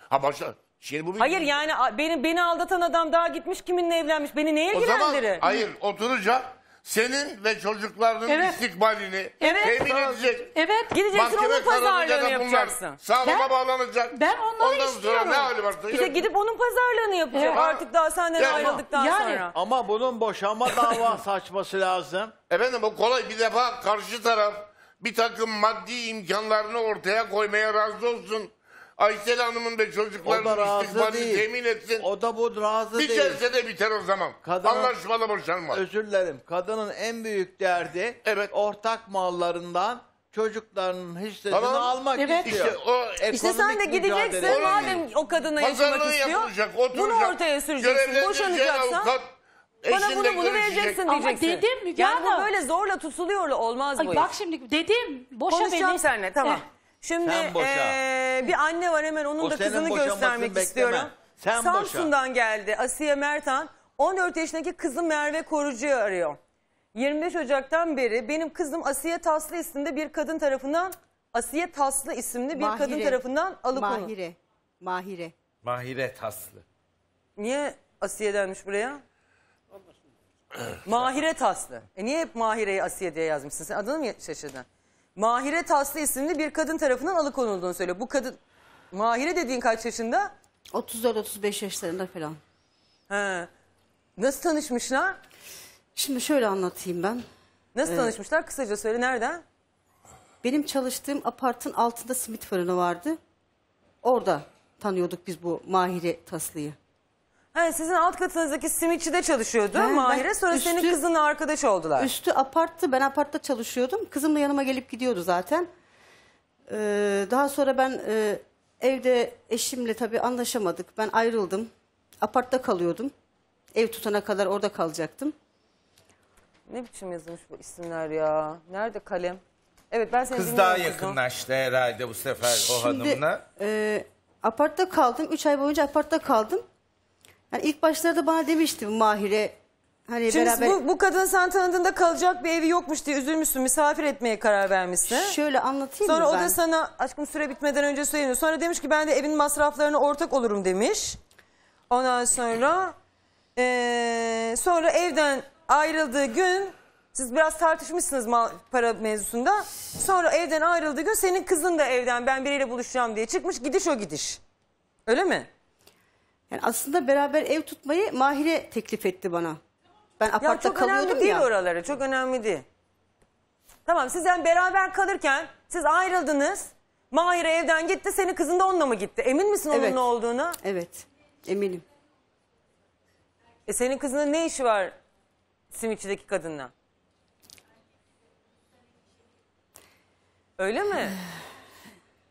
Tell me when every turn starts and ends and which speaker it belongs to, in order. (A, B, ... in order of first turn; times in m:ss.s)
0:00.1-0:01.5 A
0:01.2-0:05.5 B
0:04.7-0:10.5 A
0:08.3-0:08.6 C
0:09.4-0:10.9 C
0:10.9-0:13.0 B
0:11.1-0:16.2 A
0:13.2-0:13.5 C
0:14.1-0:15.5 C
0:15.9-0:19.5 B
0:17.3-0:17.7 C
0:18.4-0:18.8 A
0:18.4-0:19.5 C
0:19.5-0:22.3 D
0:22.5-0:32.0 A
0:30.2-0:31.4 D
0:32.0-0:33.4 D
0:32.9-0:35.8 A
0:34.4-0:34.9 D
0:35.7-0:45.0 D
0:38.2-0:38.5 A
0:41.5-0:43.3 A
0:42.2-0:42.5 C
0:43.3-0:49.1 B
0:44.3-0:49.3 A
0:49.8-0:51.0 A
0:49.9-0:54.3 B
0:51.1-0:52.5 C
0:54.0-0:56.6 C
0:55.5-1:06.4 B
0:57.2-0:58.0 D
0:59.4-1:02.1 D
1:06.9-1:14.1 B
1:12.5-1:13.2 E
1:13.7-1:15.3 E
1:15.6-1:16.6 F
1:17.4-1:19.0 B
1:20.8-1:24.6 B
1:25.2-1:28.4 B
1:28.9-1:30.3 B
1:30.7-1:32.4 E
1:33.1-1:33.5 B
1:34.2-1:35.2 B
1:36.0-1:37.2 E
1:37.7-1:39.4 B
1:37.8-1:38.1 E
1:40.4-1:43.2 E
1:44.0-1:46.8 E
1:47.5-1:52.1 B
1:49.7-1:51.0 E
1:52.0-1:55.7 E
1:56.7-2:01.7 E
2:02.2-2:03.1 E
2:03.7-2:05.3 E
2:06.7-2:11.2 B
2:10.3-2:13.4 F
2:12.5-2:16.6 E
2:17.5-2:19.6 E
2:20.1-2:20.8 E
2:20.3-2:25.4 B
2:25.0-2:26.6 E
2:26.0-2:31.2 B
2:31.9-2:32.9 B
2:33.6-2:44.4 B
2:45.0-2:45.5 B
2:46.5-2:49.6 E
2:50.2-2:51.5 E
2:50.4-2:52.6 B
2:53.9-3:00.6 B
2:59.7-3:00.0 E
3:00.6-3:01.8 E
3:03.7-3:04.9 B
3:05.7-3:06.7 B
3:10.6-3:11.2 B